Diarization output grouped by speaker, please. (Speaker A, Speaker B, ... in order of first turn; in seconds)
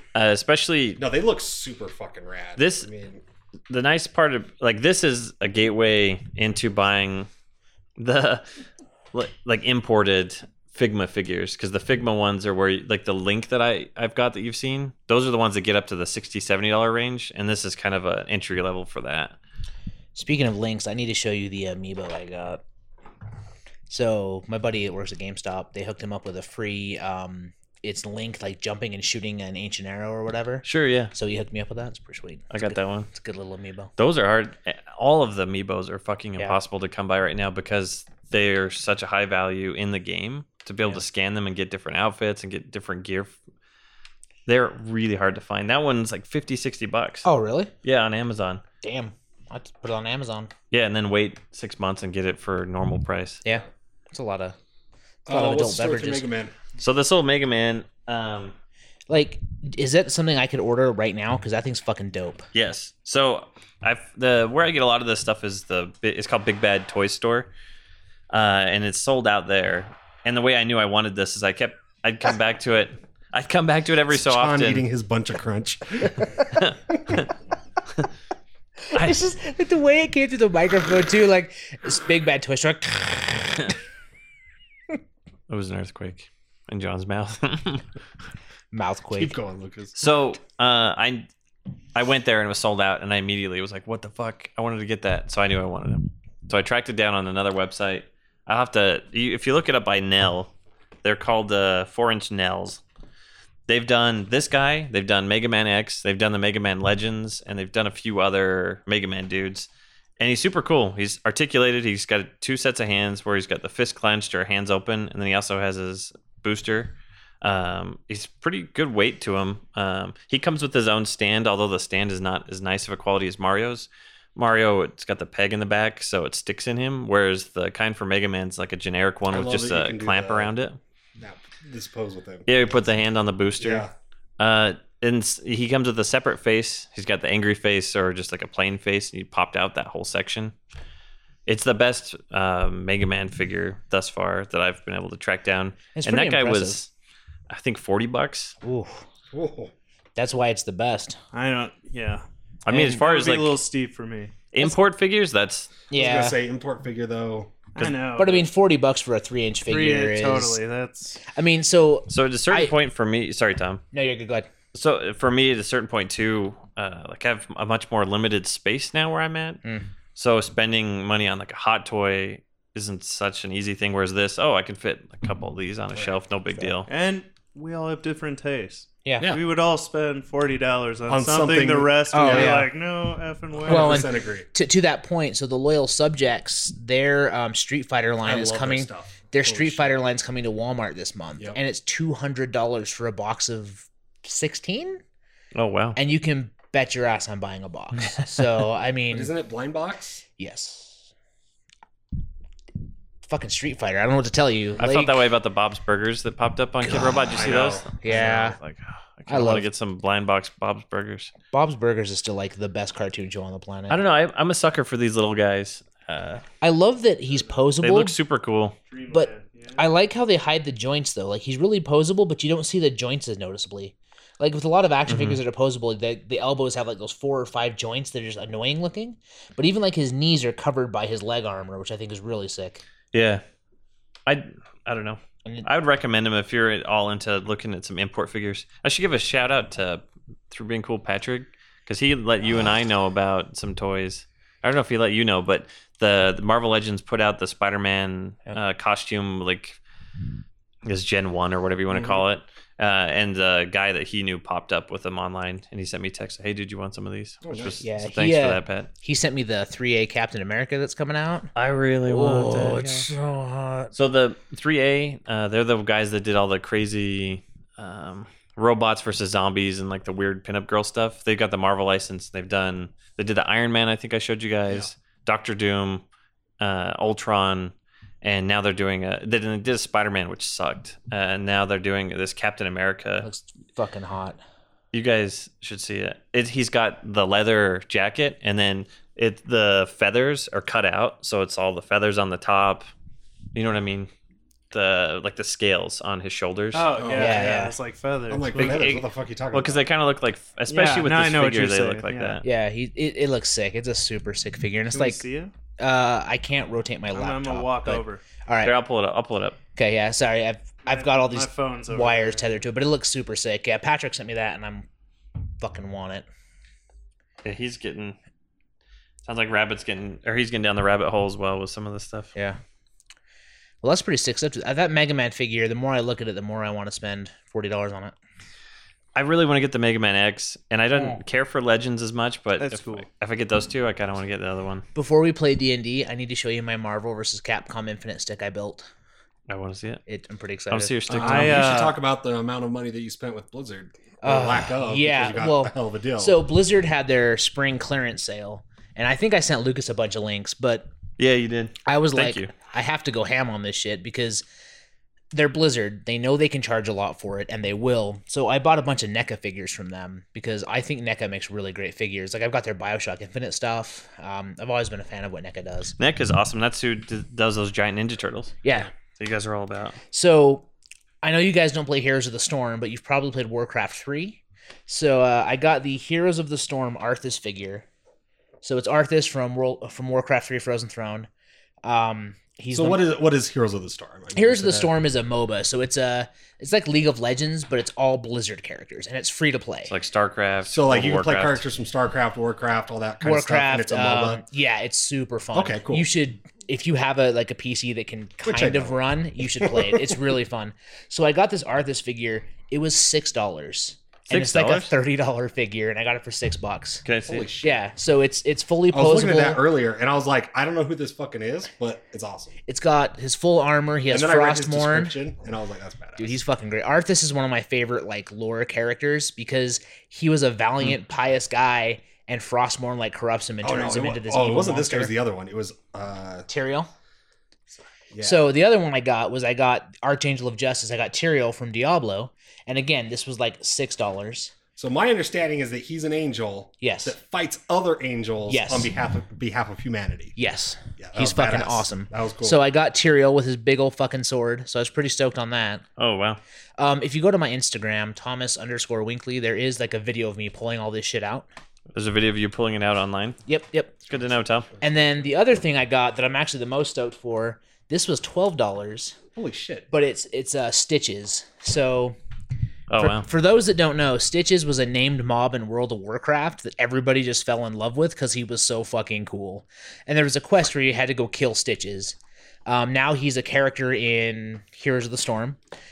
Speaker A: 0.1-1.0, 2.6-2.9, 3.7-7.3, 8.0-8.5, 9.1-19.4, 30.6-31.1, 32.5-33.1, 34.0-43.4, 44.5-47.3, 47.8-48.6, 50.7-53.4, 56.8-58.5, 62.5-67.5, 68.3-74.9, 76.5-77.2, 85.5-87.8, 90.0-91.3, 92.0-100.5, 101.0-102.8, 103.7-130.8, 132.5-133.9, 134.4-140.5, 141.5-146.9, 147.5-148.6, 152.7-153.6, 154.5-155.7, 162.1-163.8, 164.7-169.6, 170.2-176.9, 195.5-196.0, 204.8-211.3, 213.9-216.4, 217.8-218.8, 225.1-225.4, 233.1-233.4, 234.3-249.8, 250.8-258.9, 261.6-263.1, 263.9-276.0, 276.6-283.3, 284.9-292.9, 293.5-294.1, 294.7-296.9, 298.6-302.4, 308.6-309.6, 317.4-318.2, 319.2-322.3, 329.1-334.9, 339.5-340.0, 340.7-341.9, 351.2-352.5, 366.0-368.6, 369.2-370.0, 389.9-391.6, 404.3-404.9, 407.1-407.5, 446.0-446.4, 451.9-453.4, 454.1-454.7, 462.9-463.3
Speaker B: 1.0-3.2, 55.3-56.6, 74.1-76.2, 89.1-89.9, 129.3-130.5, 131.2-132.5, 133.6-133.9, 149.3-149.7, 155.9-157.7, 181.1-182.7, 183.6-184.5, 188.2-190.0, 199.1-200.2, 207.3-207.9, 257.4-257.8, 297.0-297.5, 298.3-299.9, 341.1-346.4, 382.7-384.9, 390.7-394.4, 395.5-396.1, 398.4-399.0, 399.6-400.2, 407.3-407.8, 408.9-412.6, 414.1-416.4, 423.6-426.5, 428.1-428.5, 434.8-440.4, 441.0-442.6, 459.4-459.9
Speaker C: 20.1-22.6, 23.9-33.9, 47.2-47.7, 48.8-50.5, 53.5-54.5, 55.3-56.3, 59.1-62.5, 78.9-83.7, 88.7-89.4, 145.9-146.9, 148.6-149.0, 150.2-151.2, 152.7-153.0, 155.9-156.4, 158.2-160.6, 161.3-162.7, 163.9-164.5, 169.6-169.9, 179.1-179.3, 182.1-182.7, 183.7-195.0, 196.0-199.3, 200.4-201.1, 203.3-205.2, 206.8-208.6, 209.3-209.7, 211.5-214.0, 216.6-218.2, 219.1-232.8, 257.8-261.5, 262.1-263.9, 283.2-284.4, 297.1-297.8, 302.4-305.2, 305.8-308.8, 309.8-314.9, 315.6-316.3, 323.8-328.1, 330.9-331.2, 334.9-338.9, 340.1-341.0, 344.2-350.9, 351.9-354.4, 355.3-365.9, 368.6-368.9, 370.1-370.7, 371.2-377.9, 378.6-381.3, 381.8-383.0, 384.4-389.9, 393.2-407.1, 407.6-409.6, 412.7-415.2, 416.2-425.1, 426.5-426.9, 428.2-434.5, 436.8-437.2, 438.5-438.9, 440.4-445.8, 446.8-451.5, 453.5-454.0, 454.8-459.2, 459.9-462.2, 463.0-475.6
Speaker D: 151.3-152.2, 152.8-154.4, 157.8-158.5, 159.7-161.2, 176.9-184.1, 218.9-219.9, 296.7-298.9, 300.7-302.4, 304.9-305.5, 307.1-308.2, 310.9-312.5, 332.6-333.1, 341.1-342.0